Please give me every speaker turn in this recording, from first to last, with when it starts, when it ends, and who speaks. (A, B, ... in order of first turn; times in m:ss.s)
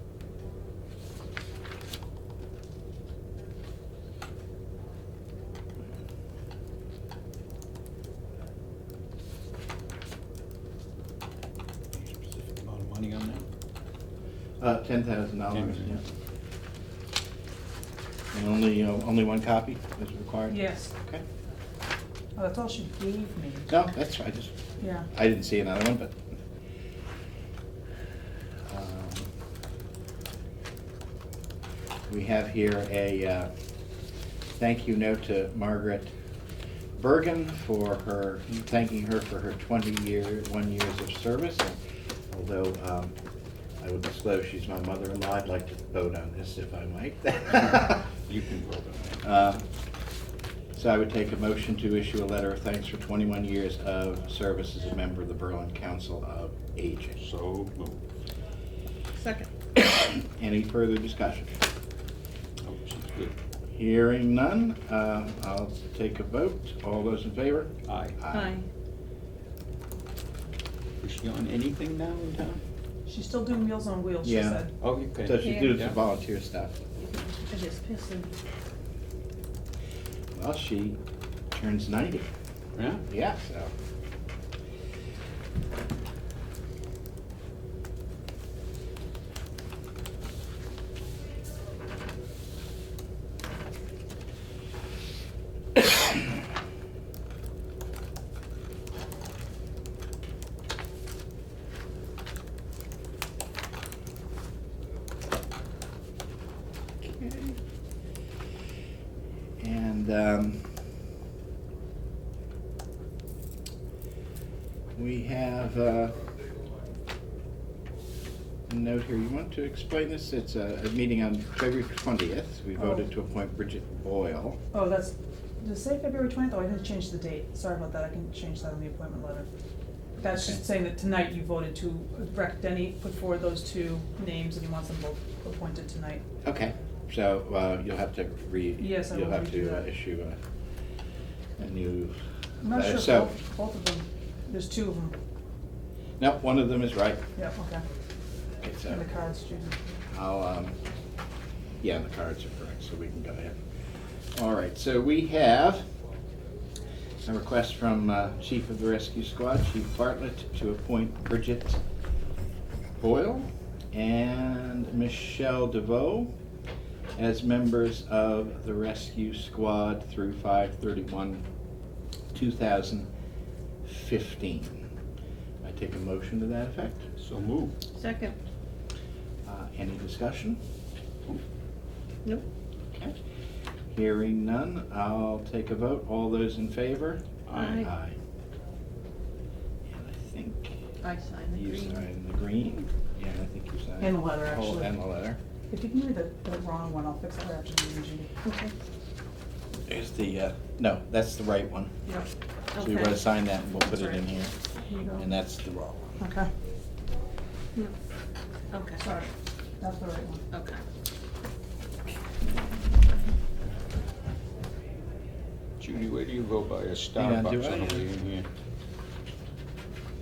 0:11.9-0:13.5 A
0:14.6-0:16.0 B
0:15.5-0:16.0 A
0:18.3-0:21.2 B
0:20.5-0:20.9 C
0:22.4-0:23.7 C
0:23.7-0:24.6 B
0:24.8-0:25.1 C
0:25.1-0:26.2 B
0:28.7-0:29.3 B
0:32.1-0:33.5 B
0:34.6-0:36.1 B
0:37.0-0:41.8 B
0:42.3-0:43.2 B
0:43.8-0:48.1 B
0:48.1-0:49.2 A
0:49.2-0:49.6 B
0:50.8-0:57.2 B
0:57.2-0:58.1 A
0:59.2-0:59.5 D
0:59.8-1:01.5 B
1:02.6-1:03.3 A
1:03.8-1:08.6 B
1:07.8-1:08.2 A
1:08.3-1:08.6 D
1:11.0-1:12.6 A
1:13.1-1:14.7 C
1:14.2-1:14.6 B
1:14.8-1:16.0 A
1:15.2-1:16.8 B
1:15.4-1:15.7 D
1:17.0-1:18.3 D
1:20.4-1:21.0 B
1:21.5-1:22.3 B
1:22.8-1:23.0 A
1:23.1-1:23.7 B
1:47.0-1:47.6 B
1:49.6-1:50.7 B
1:55.0-1:56.2 B
1:58.7-2:04.6 B
2:04.7-2:09.5 C
2:10.2-2:16.2 C
2:10.3-2:10.6 B
2:16.4-2:20.4 B
2:18.8-2:19.9 C
2:21.6-2:23.3 B
2:22.6-2:25.2 C
2:26.2-2:27.2 B
2:27.4-2:27.8 C
2:28.6-2:29.0 B
2:28.9-2:29.8 C
2:30.1-2:30.8 B
2:31.8-2:33.6 B
2:34.3-2:35.9 B
2:37.2-2:41.8 B
2:43.0-2:46.3 B
2:47.2-2:51.4 B
2:52.3-2:53.1 B
2:53.8-2:54.8 B
2:55.6-2:57.1 B
2:57.2-2:57.8 A
2:57.9-2:58.4 D
2:59.4-3:00.6 B
3:03.9-3:08.2 B
3:07.5-3:07.8 A
3:07.5-3:07.9 D
3:09.9-3:10.8 B
3:11.0-3:12.1 D
3:11.5-3:15.4 B
3:14.0-3:14.9 C
3:15.7-3:18.3 C
3:18.4-3:18.7 D
3:19.9-3:21.9 B
3:22.8-3:23.2 D
3:22.8-3:24.6 B
3:25.1-3:26.2 B
3:26.2-3:26.5 C
3:28.7-3:29.0 D
3:29.0-3:30.4 C
3:30.5-3:30.8 D
3:35.8-3:38.5 A
3:37.2-3:38.1 B